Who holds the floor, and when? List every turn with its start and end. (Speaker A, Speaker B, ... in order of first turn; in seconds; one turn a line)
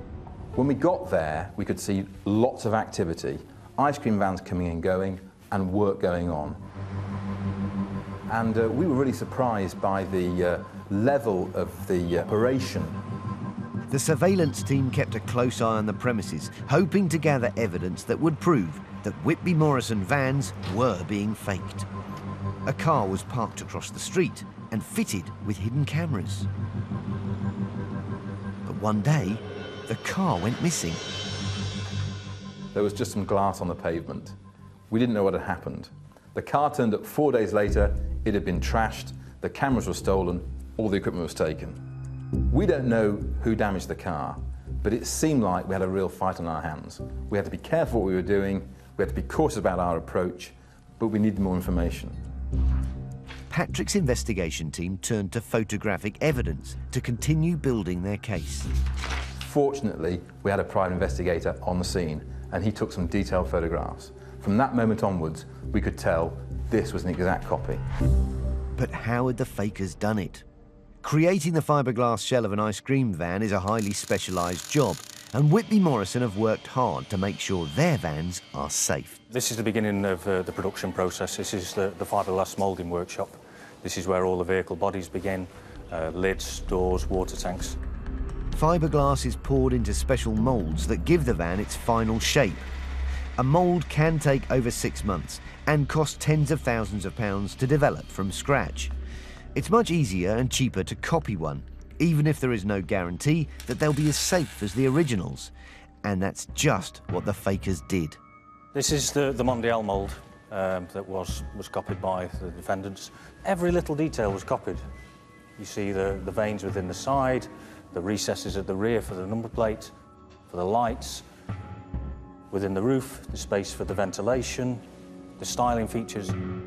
Speaker A: 0.5-6.6
Speaker A: 8.3-13.0
Speaker B: 13.9-21.9
Speaker B: 22.6-26.5
Speaker B: 28.6-31.0
Speaker A: 32.7-34.4
Speaker A: 34.9-41.8
Speaker A: 42.5-52.2
Speaker B: 53.5-58.7
Speaker A: 59.4-67.8
Speaker B: 68.8-70.4
Speaker B: 71.0-79.2
Speaker C: 79.3-87.8
Speaker B: 88.5-92.7
Speaker B: 93.4-98.9
Speaker B: 99.5-105.5
Speaker B: 106.0-108.2
Speaker C: 108.7-114.8
Speaker C: 115.6-119.9
Speaker C: 120.5-121.2
Speaker C: 122.5-124.8
Speaker C: 125.4-126.4